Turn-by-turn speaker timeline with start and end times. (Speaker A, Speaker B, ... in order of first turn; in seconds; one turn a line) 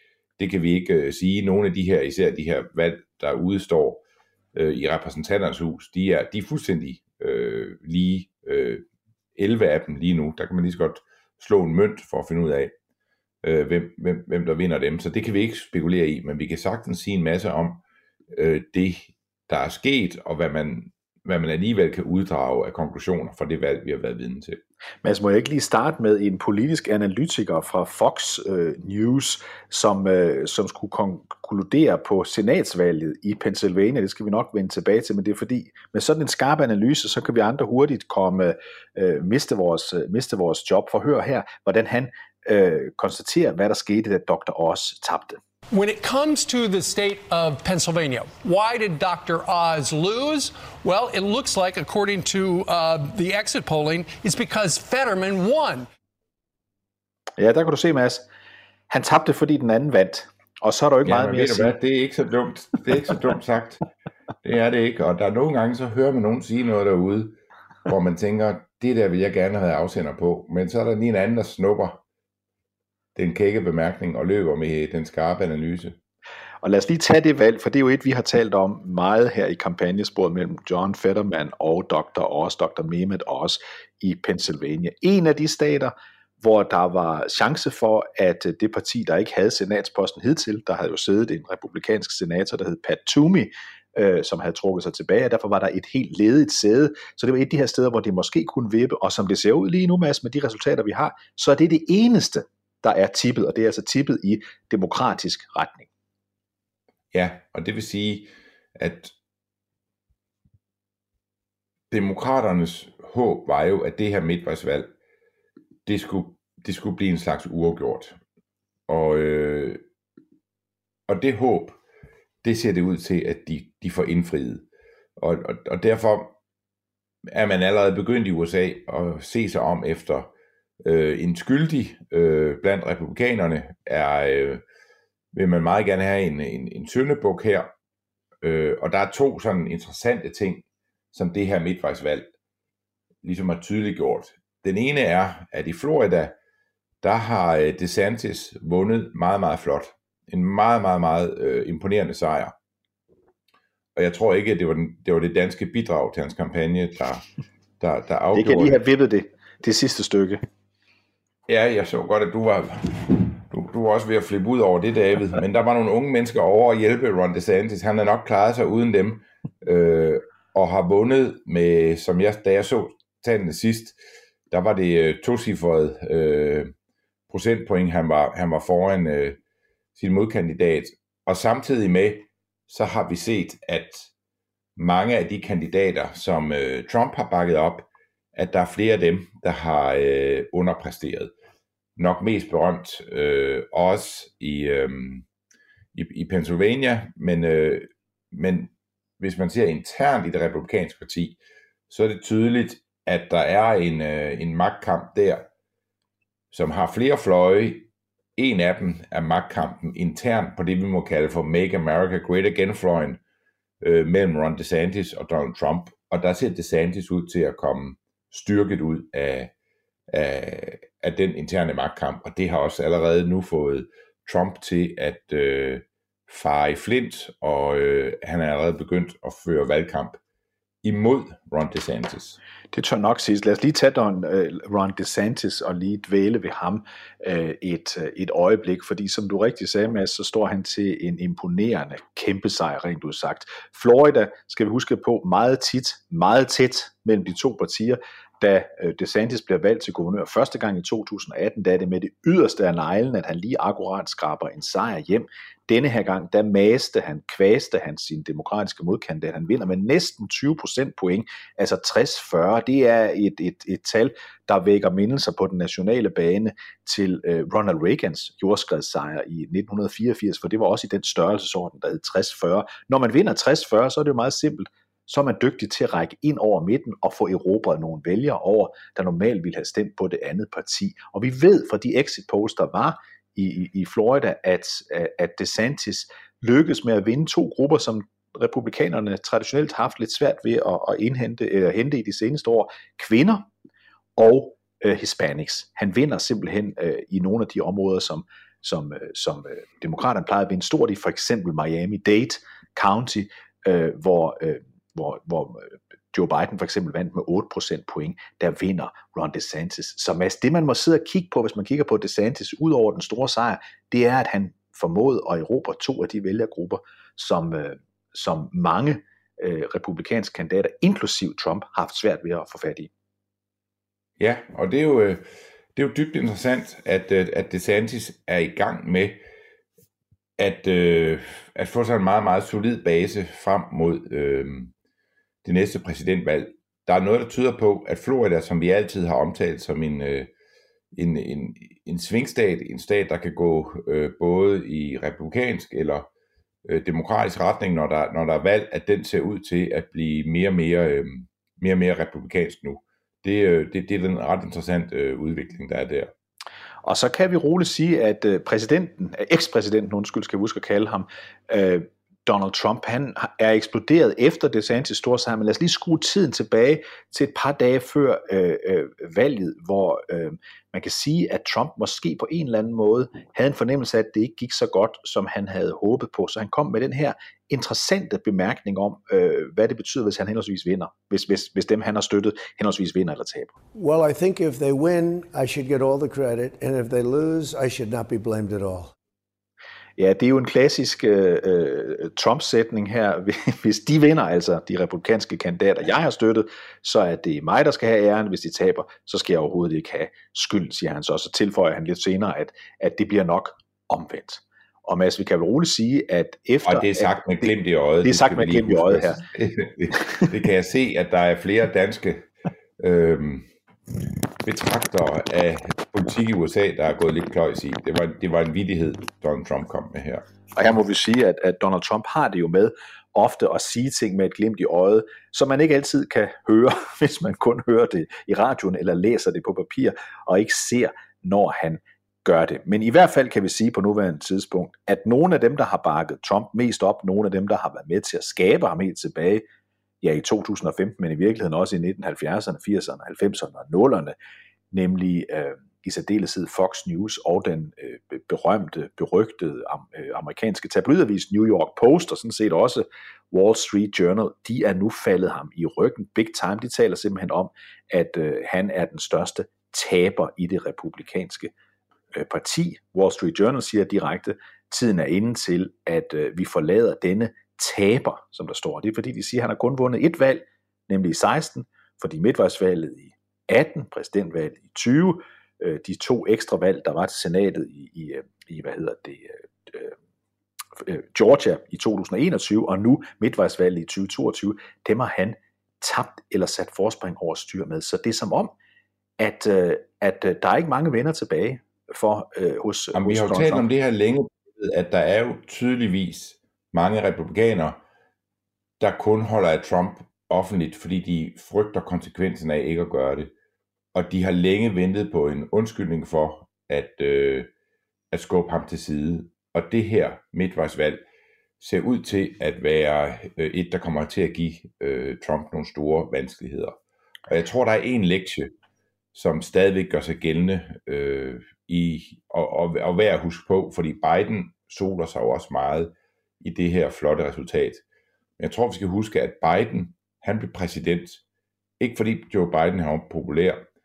Speaker A: 0.4-4.0
Speaker A: 4.5-8.8
Speaker A: 9.3-12.7
Speaker A: 13.4-24.6
Speaker B: 25.0-45.4
Speaker C: 45.7-55.9
Speaker B: 57.4-58.2
Speaker B: 58.9-61.7
Speaker A: 61.0-63.8
Speaker A: 64.4-72.0
Speaker A: 73.2-76.0
Speaker B: 76.6-105.9
Speaker A: 107.1-109.1
Speaker A: 111.9-114.9
Speaker A: 115.8-118.2
Speaker A: 118.9-119.8
Speaker A: 121.1-121.8
Speaker A: 122.4-124.6
Speaker A: 125.2-126.3
Speaker A: 127.3-130.3
Speaker A: 130.8-134.6
Speaker A: 135.3-137.7
Speaker A: 138.4-142.3
Speaker A: 143.2-146.3
Speaker A: 147.0-152.5
Speaker A: 153.9-157.2
Speaker A: 157.8-158.8
Speaker B: 158.3-160.4
Speaker A: 161.5-174.0
Speaker A: 174.5-176.7
Speaker A: 177.3-179.4
Speaker A: 179.9-184.1
Speaker A: 184.8-191.3
Speaker A: 192.0-195.2
Speaker A: 195.9-201.4
Speaker A: 201.9-205.5
Speaker A: 206.5-213.2
Speaker A: 213.8-219.5
Speaker A: 220.1-230.2
Speaker A: 230.8-232.4
Speaker B: 232.7-293.5
Speaker B: 294.2-322.9
Speaker A: 324.2-329.2
Speaker A: 330.4-334.7
Speaker A: 335.4-340.3
Speaker A: 340.9-346.1
Speaker A: 346.6-356.1
Speaker B: 356.8-383.5
Speaker D: 383.7-388.9
Speaker B: 390.0-407.5
Speaker A: 406.6-412.3
Speaker B: 408.0-409.2
Speaker A: 412.8-413.5
Speaker A: 414.4-420.2
Speaker B: 420.6-439.4
Speaker B: 440.0-444.1
Speaker B: 444.7-461.5
Speaker B: 462.1-479.9
Speaker B: 480.8-488.5
Speaker B: 489.2-493.7
Speaker A: 492.9-497.8
Speaker A: 498.8-503.3
Speaker A: 503.9-507.5
Speaker A: 508.1-511.0
Speaker A: 511.6-518.5
Speaker A: 519.1-527.8
Speaker A: 528.4-531.2
Speaker A: 531.8-533.6